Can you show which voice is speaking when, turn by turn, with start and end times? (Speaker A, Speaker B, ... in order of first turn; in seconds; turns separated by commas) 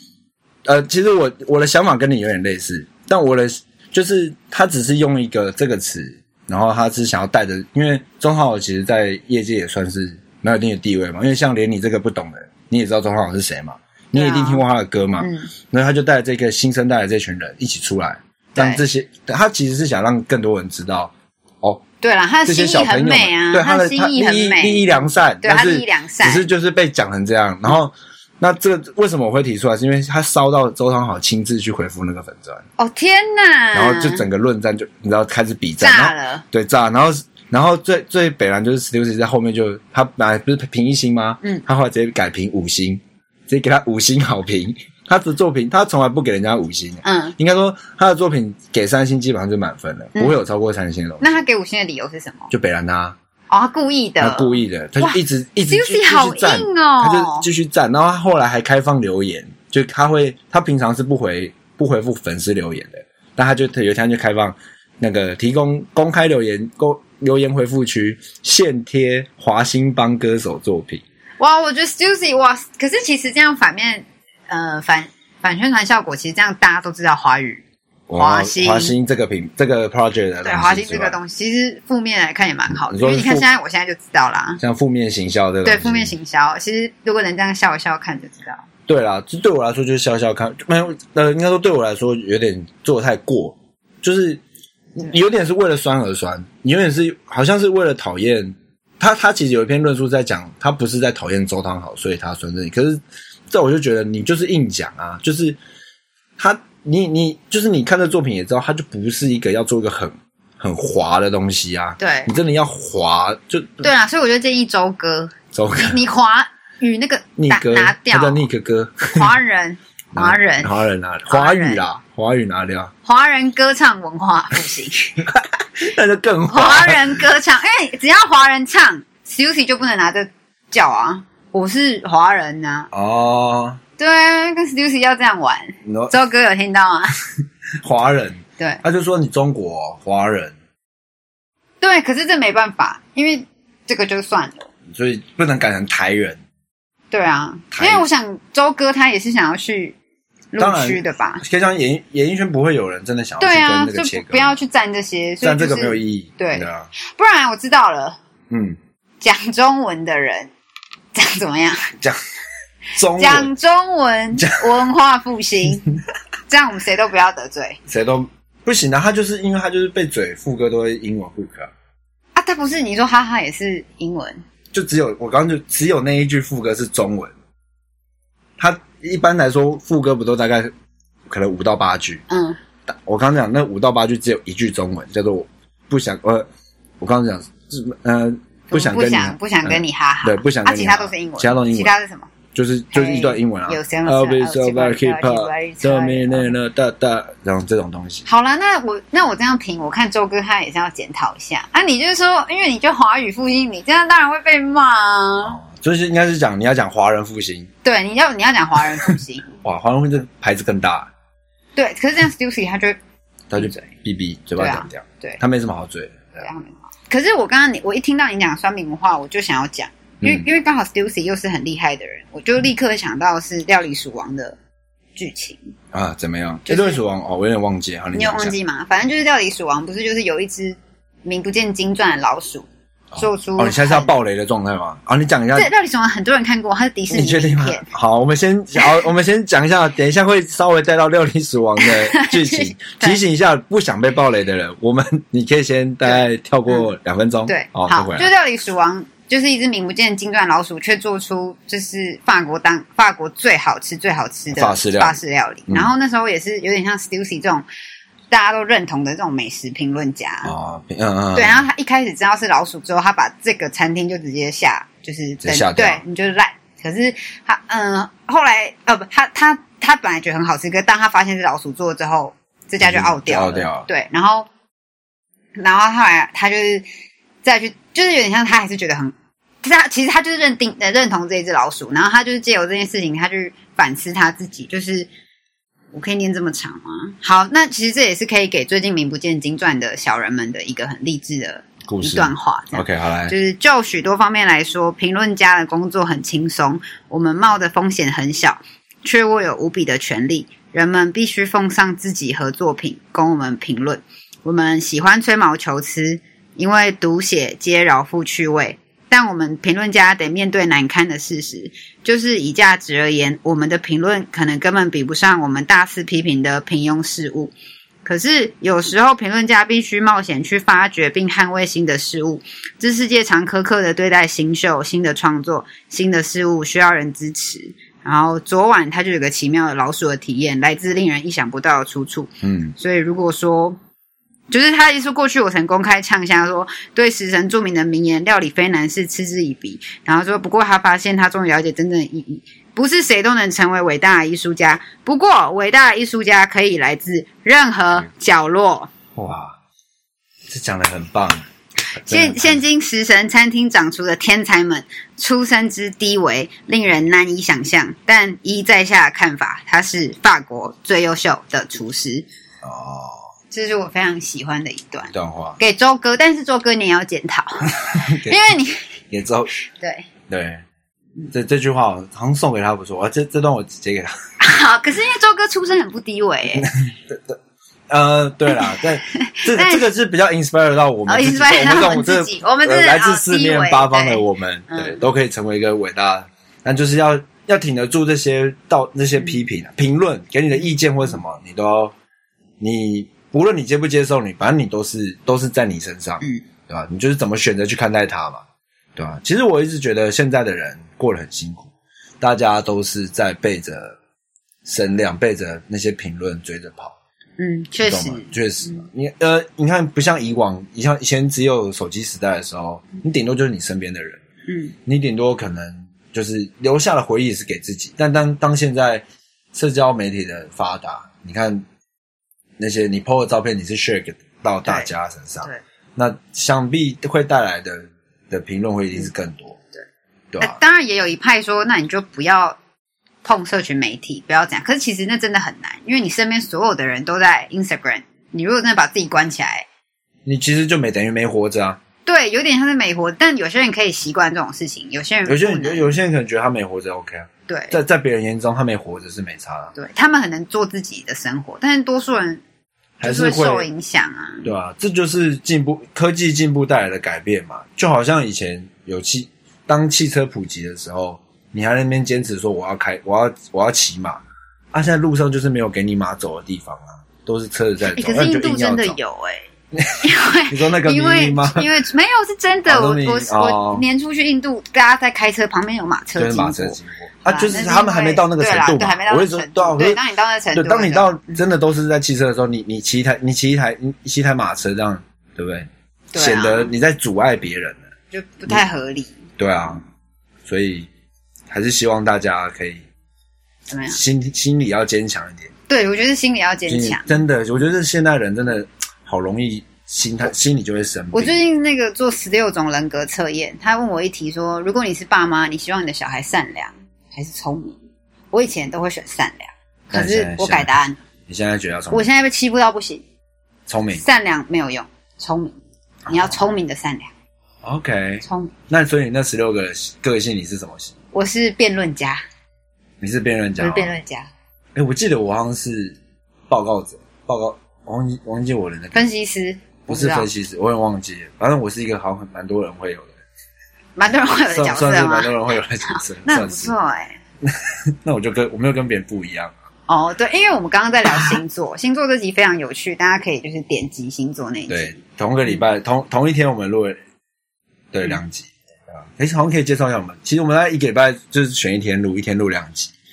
Speaker A: 0.6-21.8, Speaker B: 14.1-14.6, Speaker B: 15.2-15.5, Speaker B: 18.5-18.8, Speaker B: 22.0-26.5, Speaker A: 22.4-32.6, Speaker B: 32.8-34.2, Speaker A: 33.7-51.4, Speaker B: 35.8-36.4, Speaker B: 47.0-47.4, Speaker B: 51.2-52.5, Speaker A: 52.5-53.1, Speaker B: 53.5-57.5, Speaker A: 54.2-71.0, Speaker B: 71.4-77.6, Speaker A: 78.1-81.2, Speaker B: 78.2-78.9, Speaker B: 80.4-84.6, Speaker A: 82.8-83.5, Speaker A: 84.6-86.1, Speaker B: 85.6-88.6, Speaker A: 88.9-94.4, Speaker A: 95.0-105.6, Speaker A: 106.4-113.9, Speaker B: 112.0-112.3, Speaker B: 113.8-118.5, Speaker A: 115.5-116.0, Speaker A: 117.4-119.3, Speaker B: 119.1-120.7, Speaker A: 120.1-122.9, Speaker B: 121.3-121.8, Speaker B: 123.0-125.2, Speaker A: 125.2-127.2, Speaker B: 126.5-132.9, Speaker A: 132.9-133.8, Speaker B: 134.0-137.2, Speaker A: 135.8-136.1, Speaker A: 137.8-140.5, Speaker B: 141.8-144.7, Speaker A: 144.9-146.4, Speaker B: 147.1-149.9, Speaker A: 147.7-148.0, Speaker B: 150.5-151.4, Speaker A: 150.6-154.5, Speaker B: 153.4-158.2, Speaker A: 155.4-156.9, Speaker A: 158.5-158.8, Speaker B: 159.2-160.5, Speaker B: 161.1-161.9, Speaker A: 162.9-163.5, Speaker B: 163.1-165.9, Speaker A: 164.4-164.7, Speaker B: 166.5-167.8, Speaker A: 167.9-171.7, Speaker B: 172.3-174.4, Speaker A: 174.7-177.3, Speaker A: 178.6-180.7, Speaker A: 181.3-182.2, Speaker B: 182.3-182.6, Speaker A: 182.9-186.5, Speaker A: 187.0-191.9, Speaker B: 188.7-192.3, Speaker A: 192.5-198.2, Speaker B: 192.9-196.5, Speaker B: 198.2-205.6, Speaker A: 205.4-207.7, Speaker B: 207.8-209.6, Speaker A: 209.6-211.1, Speaker B: 211.8-213.0, Speaker A: 213.5-216.5, Speaker B: 213.6-213.9, Speaker B: 214.6-215.4, Speaker B: 216.4-224.6, Speaker A: 220.2-220.5, Speaker B: 225.2-225.7, Speaker A: 225.9-228.5, Speaker B: 226.7-227.0, Speaker B: 228.1-234.1, Speaker A: 233.1-235.7, Speaker B: 235.5-237.9, Speaker A: 237.1-248.3, Speaker B: 241.8-243.2, Speaker B: 246.1-246.9, Speaker B: 247.5-257.6, Speaker A: 254.5-255.9, Speaker B: 258.3-260.5, Speaker A: 260.4-261.6, Speaker B: 261.3-274.5, Speaker A: 265.4-266.0, Speaker A: 272.8-273.9, Speaker B: 275.6-276.8, Speaker B: 277.4-285.1, Speaker B: 285.9-317.5, Speaker A: 291.9-293.3, Speaker B: 318.0-333.8, Speaker A: 332.4-332.7, Speaker B: 334.5-348.9, Speaker A: 349.1-349.6, Speaker A: 350.5-351.4, Speaker A: 352.0-352.6, Speaker B: 352.1-362.2, Speaker A: 362.6-363.2, Speaker B: 363.5-368.9, Speaker A: 365.1-365.6, Speaker A: 367.8-368.4, Speaker A: 369.1-369.5, Speaker B: 369.7-370.1, Speaker A: 370.3-370.6, Speaker A: 371.3-374.1, Speaker B: 374.4-376.7, Speaker A: 376.5-377.4, Speaker A: 377.9-391.9, Speaker B: 378.5-379.8, Speaker B: 381.1-385.0, Speaker A: 392.6-398.4, Speaker A: 398.9-401.7, Speaker A: 402.2-404.0, Speaker A: 404.6-406.9, Speaker B: 407.4-408.8, Speaker A: 407.8-414.2, Speaker B: 414.5-414.7, Speaker A: 414.9-421.6, Speaker A: 422.6-429.6, Speaker A: 430.3-430.6, Speaker B: 430.4-432.6, Speaker B: 433.2-439.6, Speaker A: 440.2-441.8, Speaker B: 442.1-445.9, Speaker A: 445.2-449.7, Speaker B: 447.5-447.8, Speaker B: 449.7-452.4, Speaker A: 453.0-453.7, Speaker B: 453.0-454.5, Speaker A: 454.4-464.2, Speaker A: 464.7-469.0, Speaker B: 467.9-469.5, Speaker A: 469.7-471.7, Speaker B: 470.0-481.4, Speaker A: 472.6-473.8, Speaker A: 476.2-480.0, Speaker A: 480.5-487.8, Speaker B: 486.1-486.7, Speaker B: 488.1-489.1, Speaker A: 489.4-489.8, Speaker A: 490.4-490.9, Speaker A: 491.5-492.8, Speaker B: 493.7-494.0, Speaker A: 493.9-495.5, Speaker B: 495.7-497.2, Speaker A: 496.7-501.4, Speaker B: 501.1-507.8, Speaker B: 508.3-511.0, Speaker A: 509.9-510.7, Speaker A: 511.3-512.1, Speaker B: 511.9-513.0, Speaker A: 513.7-514.0, Speaker B: 513.9-515.5, Speaker A: 516.0-516.4, Speaker B: 516.1-517.1, Speaker A: 517.6-520.9, Speaker B: 518.2-518.5, Speaker B: 521.1-522.2, Speaker A: 523.0-523.9, Speaker B: 523.6-524.3, Speaker A: 524.7-526.0, Speaker A: 526.5-529.1, Speaker B: 528.9-530.3, Speaker A: 529.9-533.1, Speaker B: 534.0-535.3, Speaker A: 534.5-536.7, Speaker B: 535.9-537.2, Speaker A: 537.4-539.5, Speaker B: 539.9-545.6, Speaker A: 541.1-541.4, Speaker A: 544.7-547.0, Speaker A: 547.9-552.9